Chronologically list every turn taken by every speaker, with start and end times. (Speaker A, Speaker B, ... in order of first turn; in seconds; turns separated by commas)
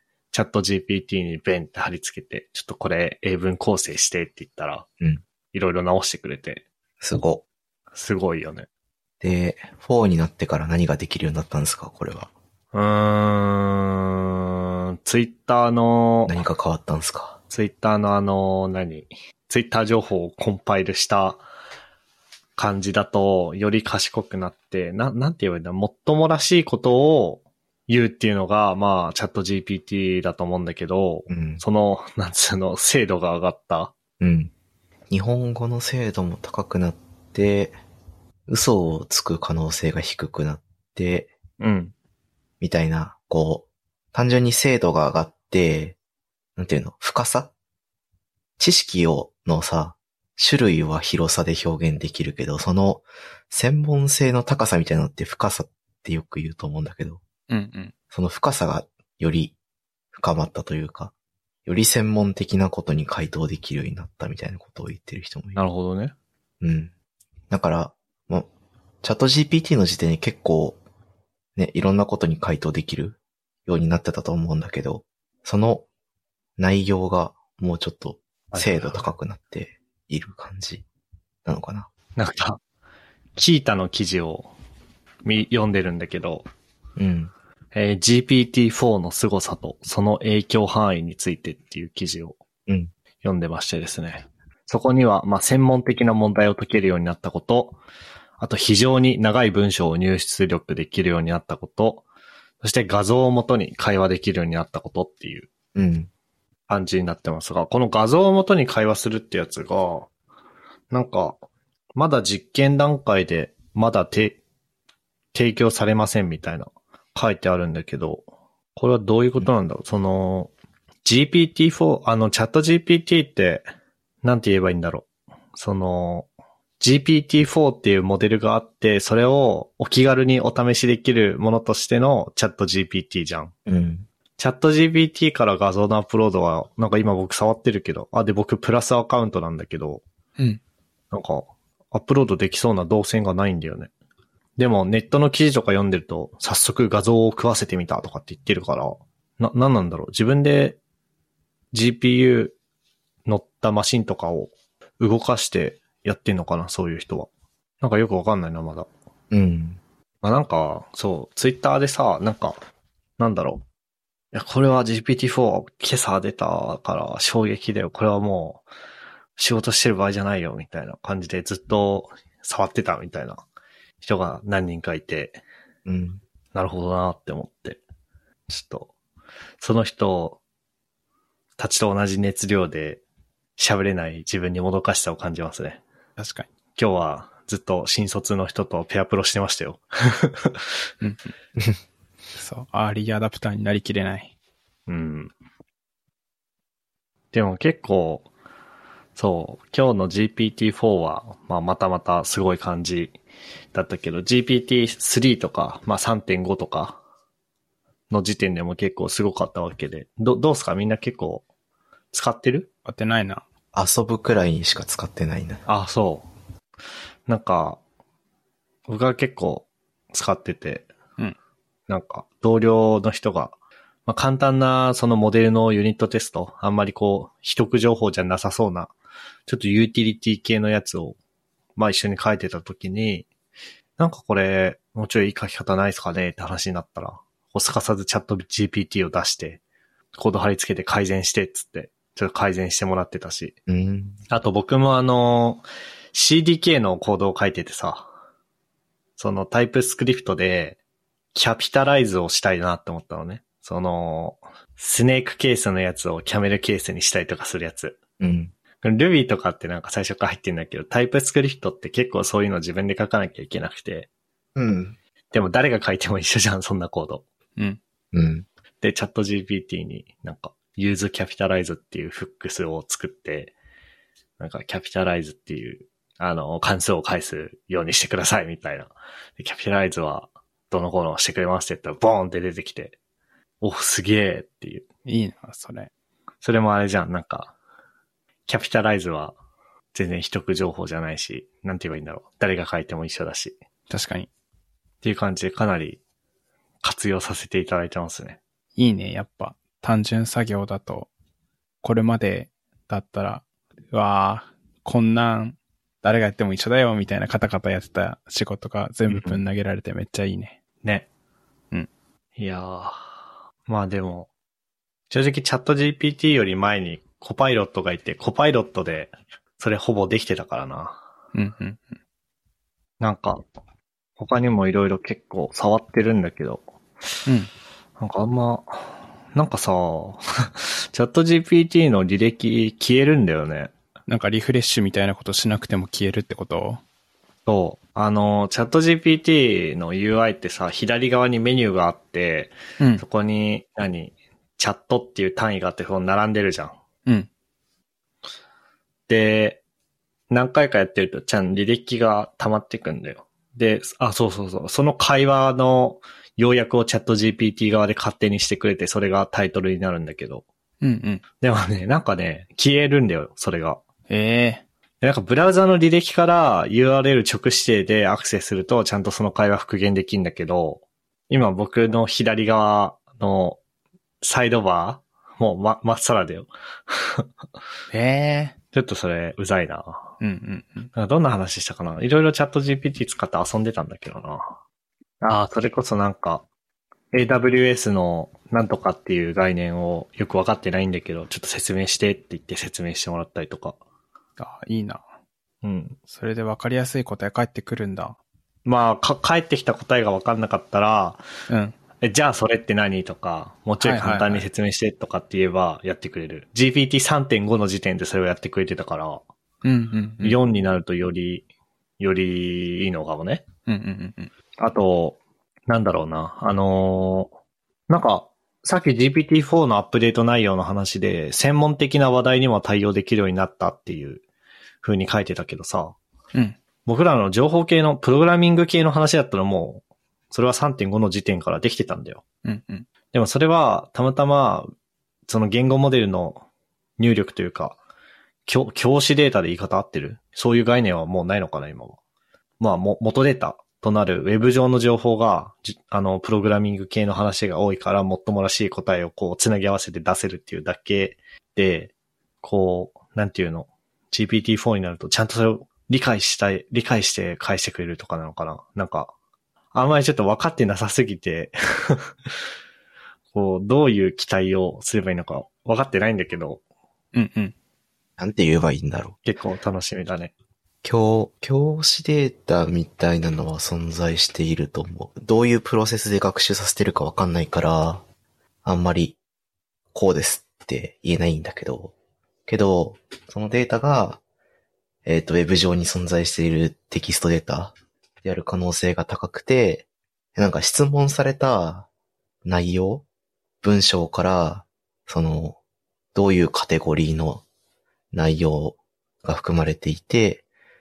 Speaker A: 0.3-4.8, Speaker A: 5.5-6.6, Speaker B: 7.0-7.4, Speaker A: 7.9-8.7, Speaker B: 9.2-12.3, Speaker A: 12.7-16.4, Speaker B: 16.2-17.4, Speaker A: 17.5-21.4, Speaker A: 22.6-33.9, Speaker B: 31.3-31.6, Speaker B: 34.2-34.5, Speaker B: 35.1-37.8, Speaker B: 38.5-41.3, Speaker A: 41.6-41.9, Speaker B: 42.6-46.0, Speaker B: 46.6-47.5, Speaker B: 48.6-57.2, Speaker C: 57.5-57.9, Speaker B: 58.1-59.5, Speaker B: 60.1-61.1, Speaker B: 61.6-65.6, Speaker A: 65.5-66.1, Speaker B: 66.6-66.9, Speaker B: 67.5-68.5, Speaker B: 69.0-70.8, Speaker B: 71.5-75.8, Speaker B: 76.6-80.8, Speaker A: 78.5-79.1, Speaker B: 81.4-81.9, Speaker A: 82.2-82.6, Speaker A: 83.3-84.5, Speaker A: 85.2-86.5, Speaker B: 87.0-87.3, Speaker A: 87.7-92.4, Speaker A: 93.2-97.8, Speaker A: 98.4-102.0, Speaker A: 102.6-105.5, Speaker B: 105.7-106.1, Speaker A: 106.7-110.1, Speaker A: 110.9-111.4, Speaker A: 111.9-114.4, Speaker A: 115.3-120.5, Speaker A: 121.0-123.7, Speaker A: 124.2-126.3, Speaker A: 126.8-133.5, Speaker B: 133.7-134.1, Speaker A: 134.4-140.0, Speaker A: 141.1-143.9, Speaker A: 144.6-150.8, Speaker A: 151.7-152.5, Speaker A: 153.2-157.3, Speaker A: 157.8-158.9, Speaker B: 159.3-159.8, Speaker A: 160.2-162.6, Speaker A: 163.2-163.6, Speaker A: 164.3-168.6, Speaker A: 169.4-173.4, Speaker A: 174.0-175.4, Speaker B: 175.8-176.2, Speaker A: 176.5-177.8, Speaker A: 178.5-178.9, Speaker A: 179.6-180.4, Speaker A: 181.6-183.0, Speaker A: 183.6-185.8, Speaker C: 186.2-186.5, Speaker A: 186.8-190.6, Speaker C: 191.0-191.3, Speaker C: 192.3-194.3, Speaker A: 194.9-195.3, Speaker A: 197.3-198.3, Speaker A: 199.2-203.2, Speaker A: 203.7-207.0, Speaker A: 208.1-211.4, Speaker A: 212.1-212.7, Speaker C: 212.8-213.4, Speaker B: 213.7-215.6, Speaker A: 215.7-216.3, Speaker A: 217.3-217.8, Speaker A: 218.9-220.9, Speaker A: 221.9-223.5, Speaker A: 224.1-228.9, Speaker A: 229.5-231.2, Speaker A: 231.8-233.3, Speaker A: 234.0-239.6, Speaker A: 240.1-243.6, Speaker B: 243.7-244.2, Speaker A: 244.3-248.1, Speaker A: 249.2-250.8, Speaker A: 251.3-258.0, Speaker B: 258.2-258.5, Speaker A: 258.8-264.1, Speaker B: 264.6-264.9, Speaker A: 265.3-267.2, Speaker B: 268.1-268.5, Speaker A: 268.8-273.5, Speaker A: 274.4-282.9, Speaker A: 283.6-284.8, Speaker C: 285.0-285.9, Speaker A: 286.4-287.5, Speaker A: 288.5-289.4, Speaker A: 289.9-293.6, Speaker C: 293.9-294.3, Speaker A: 295.0-296.0, Speaker A: 296.8-298.4, Speaker C: 298.8-301.1, Speaker C: 301.8-310.6, Speaker A: 309.1-309.4, Speaker A: 312.4-313.1, Speaker A: 313.7-314.3, Speaker A: 315.1-321.0, Speaker C: 321.3-321.8, Speaker A: 323.0-323.4, Speaker A: 324.2-326.6, Speaker A: 328.0-333.7, Speaker C: 334.1-336.8, Speaker A: 337.4-346.8, Speaker A: 349.1-349.6, Speaker A: 350.3-360.4, Speaker C: 360.8-361.2, Speaker A: 361.4-363.8, Speaker C: 364.1-364.6, Speaker A: 365.0-373.6, Speaker A: 374.2-377.3, Speaker C: 377.9-378.5, Speaker A: 378.7-380.2, Speaker C: 380.2-380.9, Speaker A: 380.9-384.6, Speaker A: 385.2-386.4, Speaker A: 387.1-393.8, Speaker C: 394.4-395.0, Speaker A: 395.6-396.0, Speaker C: 396.1-398.2, Speaker A: 398.6-401.2, Speaker C: 401.5-401.7, Speaker A: 402.0-409.2, Speaker C: 403.8-404.4, Speaker C: 409.6-410.4, Speaker A: 410.2-411.4, Speaker A: 412.0-413.5, Speaker C: 413.7-414.3, Speaker A: 414.6-417.3, Speaker A: 417.9-424.2, Speaker A: 424.8-426.0, Speaker A: 426.8-432.2, Speaker C: 432.4-432.9, Speaker A: 433.1-434.7, Speaker A: 435.3-436.4, Speaker A: 437.0-437.8, Speaker A: 438.4-442.0, Speaker A: 442.6-459.1, Speaker A: 459.7-462.3, Speaker A: 463.3-466.6, Speaker C: 467.1-467.5, Speaker B: 468.2-469.1, Speaker A: 469.2-470.3, Speaker B: 470.8-478.0, Speaker B: 478.6-479.2, Speaker B: 479.9-481.9, Speaker B: 482.5-484.2, Speaker B: 485.0-491.9, Speaker B: 492.4-493.0, Speaker B: 493.6-495.6, Speaker B: 496.1-497.4, Speaker B: 498.1-500.4